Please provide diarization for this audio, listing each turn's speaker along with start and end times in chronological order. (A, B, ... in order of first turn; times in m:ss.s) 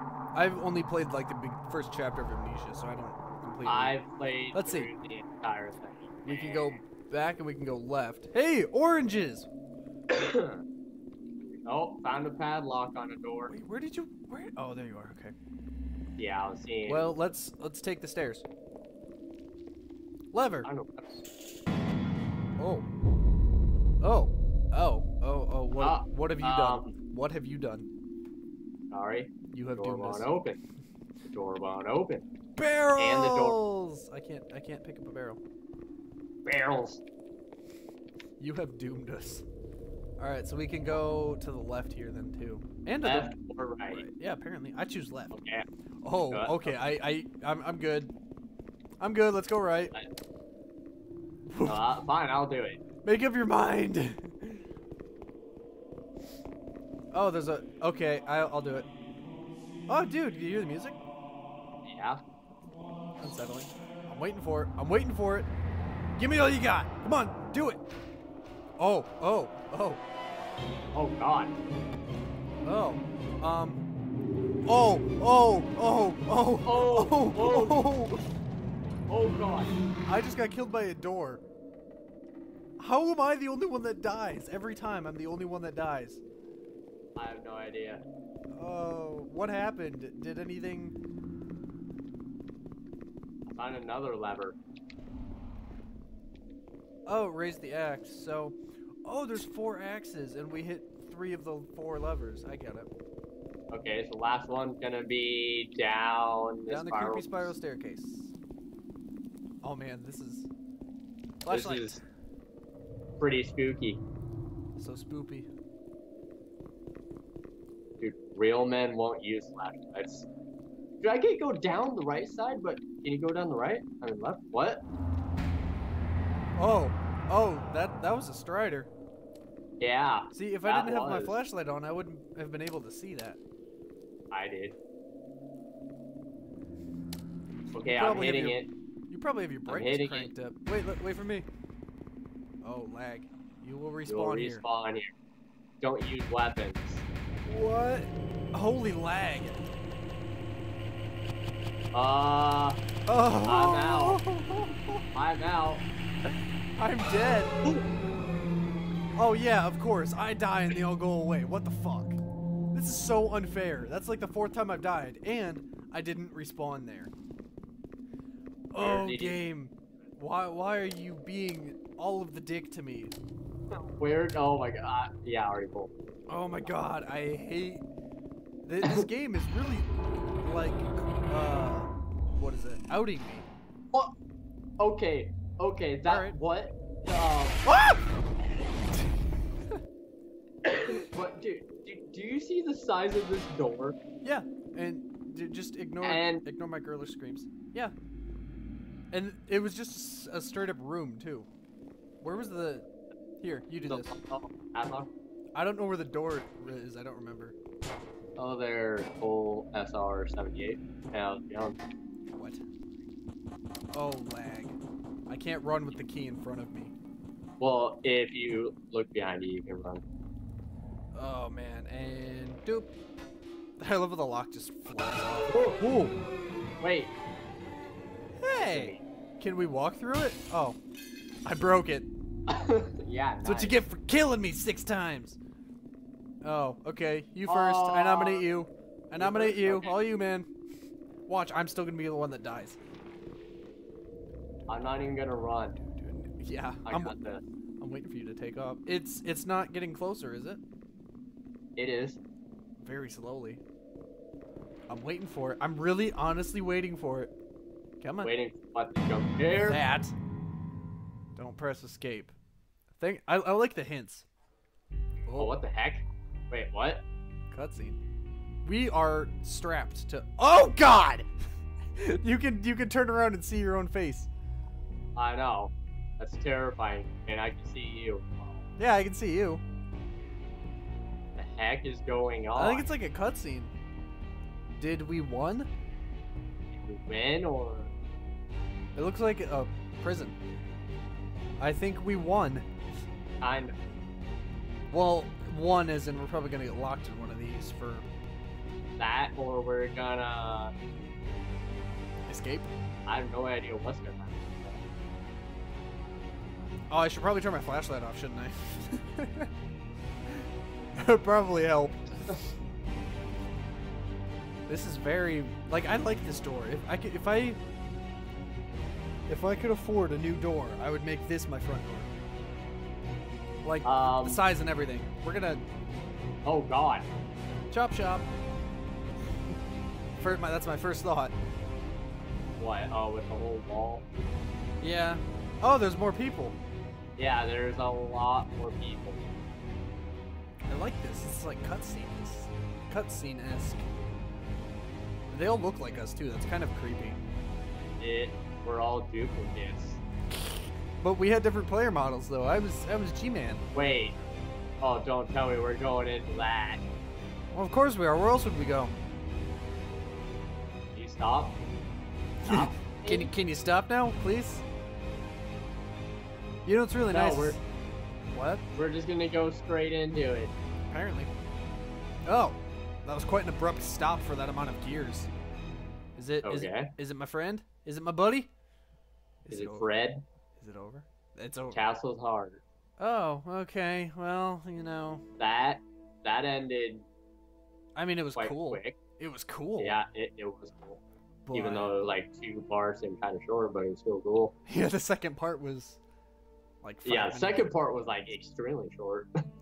0:00.3-0:03.9 A
0:03.6-0:06.8 B
0:04.5-0:04.9 A
0:06.2-0:09.5 A
0:10.1-0:10.6 B
0:11.4-0:13.5 B
0:13.5-0:15.3 A
0:16.2-0:17.1 B
0:16.9-0:18.4 A
0:20.3-0:20.7 A
0:20.6-0:21.1 B
0:22.6-0:22.8 A
0:24.0-0:27.9 A
0:25.8-0:27.0 B
0:28.9-0:30.6 B
0:29.5-0:30.3 A
0:31.3-0:32.2 B
0:32.6-0:35.4 A
0:33.0-0:33.6 B
0:36.4-0:37.0 B
0:38.4-0:39.4 A
0:40.2-0:43.3 A
0:43.0-0:44.0 B
0:43.9-0:45.3 A
0:45.3-0:45.6 B
0:46.0-0:48.1 A
0:46.3-0:46.8 B
0:49.0-0:49.9 A
0:51.5-0:51.8 A
0:51.6-0:52.8 B
0:53.0-0:54.6 A
0:57.1-0:58.9 A
0:59.9-1:01.0 A
1:01.8-1:02.2 B
1:03.2-1:05.5 A
1:06.2-1:07.8 A
1:08.8-1:10.0 A
1:10.9-1:11.6 B
1:12.6-1:13.8 A
1:14.6-1:18.1 A
1:16.6-1:18.0 B
1:19.1-1:19.7 B
1:20.1-1:21.4 A
1:22.8-1:26.2 A
1:27.2-1:28.0 B
1:28.5-1:31.0 A
1:33.5-1:34.6 B
1:37.0-1:42.9 A
1:43.7-1:47.5 B
1:46.7-1:48.3 A
1:49.6-1:50.5 A
1:51.4-1:52.0 A
1:51.5-1:52.0 B
1:53.2-1:54.0 B
1:54.8-1:55.5 A
1:58.0-2:00.3 B
2:01.0-2:04.8 B
2:06.6-2:08.9 A
2:09.8-2:11.4 B
2:10.3-2:13.4 A
2:14.3-2:14.8 B
2:17.7-2:18.7 B
2:18.0-2:21.5 A
2:19.7-2:20.3 B
2:22.6-2:24.6 A
2:24.1-2:25.1 B
2:25.8-2:27.0 B
2:27.4-2:29.7 A
2:31.9-2:32.8 B
2:33.0-2:35.0 A
2:33.4-2:34.2 B
2:35.1-2:35.8 B
2:36.8-2:37.6 A
2:39.2-2:42.2 A
2:42.7-2:47.1 A
2:48.7-2:53.1 A
2:48.8-2:49.4 B
2:53.7-2:55.9 B
2:56.3-2:57.8 A
2:58.6-3:03.5 A
3:04.8-3:07.6 B
3:06.0-3:06.4 A
3:07.6-3:08.0 A
3:10.6-3:14.0 B
3:14.2-3:17.9 A
3:16.0-3:16.4 B
3:19.1-3:21.5 A
3:22.2-3:22.9 A
3:23.4-3:24.1 A
3:23.8-3:25.1 B
3:25.5-3:27.6 A
3:28.4-3:31.8 B
3:32.3-3:32.6 A
3:33.9-3:36.9 A
3:37.6-3:40.0 B
3:41.1-3:42.9 A
3:43.8-3:46.2 A
3:46.8-3:47.1 B
3:48.4-3:50.8 A
3:48.6-3:49.0 B
3:51.4-3:52.1 A
3:52.5-3:53.8 B
3:53.4-3:55.4 A
3:56.4-4:00.5 A
3:57.4-3:58.5 B
3:59.2-4:00.0 B
4:01.3-4:02.8 A
4:04.7-4:05.8 B
4:05.9-4:07.1 A
4:06.8-4:07.4 B
4:07.8-4:10.6 A
4:11.8-4:12.2 B
4:12.8-4:13.6 A
4:14.9-4:17.3 A
4:18.0-4:18.3 A
4:18.2-4:19.8 B
4:19.6-4:20.1 A
4:21.4-4:22.3 A
4:23.0-4:24.2 A
4:25.3-4:25.5 A
4:25.4-4:27.0 B
4:27.5-4:28.0 A
4:28.6-4:31.3 A
4:32.0-4:34.3 A
4:35.2-4:38.6 B
4:38.8-4:39.6 A
4:41.4-4:42.9 B
4:42.6-4:43.7 A
4:44.8-4:45.7 A
4:46.7-4:47.9 B
4:48.9-4:50.4 A
4:51.6-4:52.7 A
4:53.4-4:53.8 B
4:54.9-4:58.1 A
4:59.0-5:00.7 B
5:02.3-5:02.7 A
5:03.0-5:04.8 B
5:06.9-5:09.5 A
5:10.3-5:12.4 A
5:14.7-5:17.6 A
5:19.3-5:22.1 A
5:23.6-5:25.6 A
5:23.8-5:24.4 B
5:26.4-5:27.1 B
5:27.7-5:28.3 A
5:30.2-5:31.3 A
5:32.6-5:34.0 B
5:34.8-5:36.6 A
5:37.2-5:39.4 B
5:40.7-5:43.8 A
5:45.3-5:47.2 A
5:48.0-5:50.0 B
5:51.0-5:53.6 A
5:53.7-5:54.2 B
5:54.8-5:56.8 B
5:57.5-5:58.9 A
6:00.9-6:01.6 B
6:02.4-6:03.3 B
6:02.4-6:04.6 A
6:06.6-6:07.6 A
6:07.1-6:07.6 B
6:08.3-6:08.7 A
6:08.7-6:10.5 B
6:10.9-6:11.3 A
6:12.2-6:15.3 A
6:16.2-6:18.5 A
6:16.4-6:16.9 B
6:19.4-6:19.9 A
6:19.5-6:20.2 B
6:20.6-6:21.8 A
6:21.7-6:22.6 B
6:23.0-6:25.2 A
6:25.4-6:27.0 B
6:27.9-6:30.0 A
6:28.4-6:29.0 B
6:29.8-6:31.0 B
6:31.4-6:31.9 A
6:31.5-6:34.5 B
6:34.7-6:36.0 A
6:36.8-6:37.7 A
6:37.0-6:39.3 B